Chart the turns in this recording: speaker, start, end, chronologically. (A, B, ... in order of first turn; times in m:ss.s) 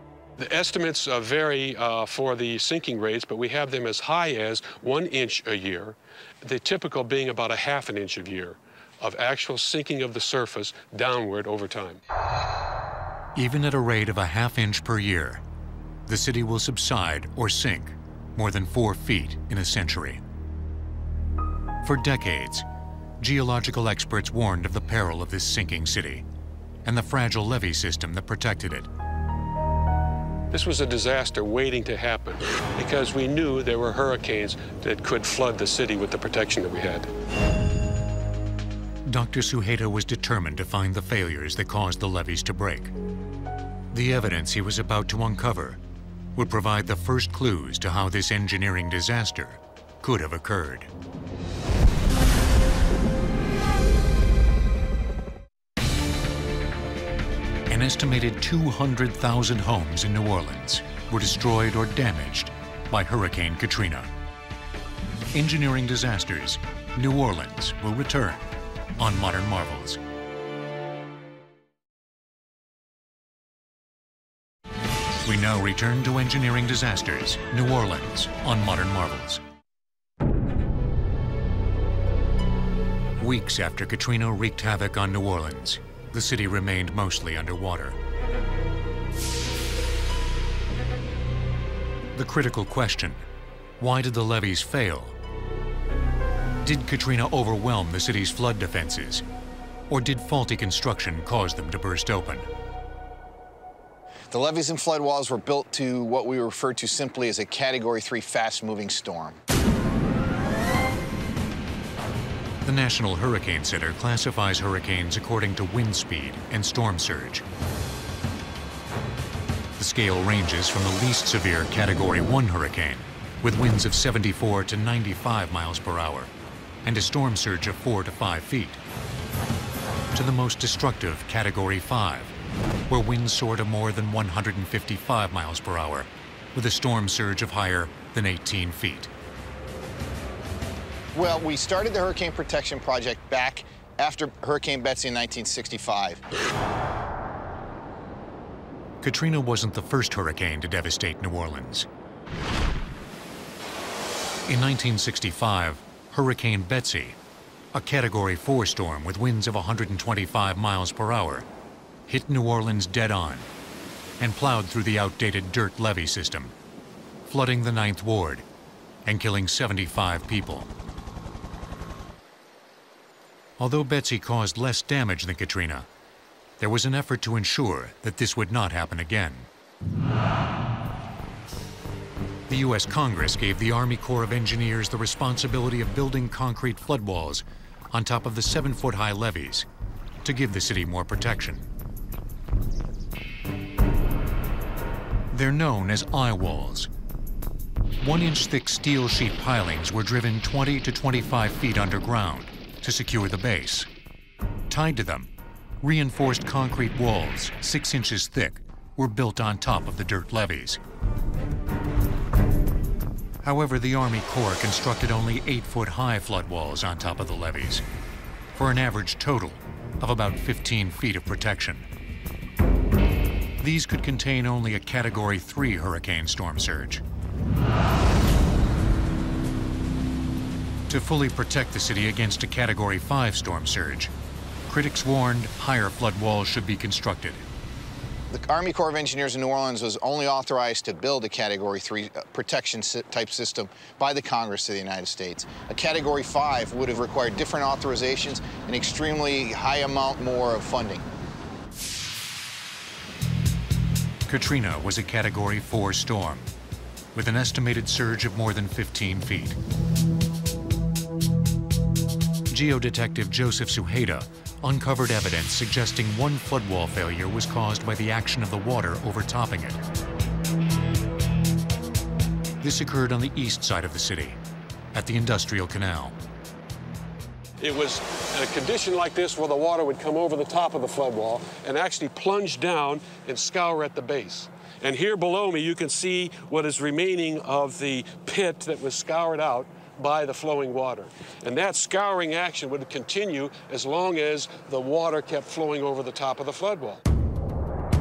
0:00.4-0:12.0 A
0:13.4-0:15.4 B
0:16.1-0:20.2 B
0:21.8-0:22.6 B
0:23.2-0:26.2 B
0:26.8-0:28.9 B
0:30.5-0:37.1 A
0:39.0-0:42.9 B
0:43.9-0:45.8 B
0:46.3-0:50.9 B
0:57.7-1:04.1 B
1:05.3-1:08.4 B
1:09.0-1:10.0 B
1:15.2-1:19.4 B
1:23.2-1:28.0 B
1:32.1-1:33.2 B
1:33.8-1:35.2 B
1:36.6-1:39.2 B
1:39.9-1:42.5 B
1:44.3-1:49.4 C
1:52.6-1:57.4 B
1:59.8-2:06.3 B
2:06.8-2:08.8 B
2:10.1-2:12.3 B
2:12.9-2:19.1 B
2:21.1-2:26.2 C
2:29.0-2:31.9 B
2:34.5-2:37.2 B
2:37.7-2:41.4 B
2:42.1-2:43.5 B
2:44.2-2:46.5 B
2:47.2-2:48.4 B
2:49.0-2:50.7 B
2:53.6-2:55.9 B
2:56.6-2:59.5 B
3:02.5-3:09.7 B
3:10.2-3:11.7 B
3:15.3-3:16.9 B
3:18.0-3:23.9 B
3:24.7-3:25.3 B
3:25.8-3:30.8 B
3:33.4-3:37.8 B
3:38.5-3:41.8 B
3:43.6-3:47.0 B
3:50.9-3:54.1 B
3:54.7-3:57.4 B
3:58.3-4:11.0 C
4:14.3-4:16.5 B
4:17.1-4:19.6 B
4:22.5-4:29.8 B
4:32.6-4:34.4 B
4:34.9-4:36.2 B
4:37.6-4:57.0 A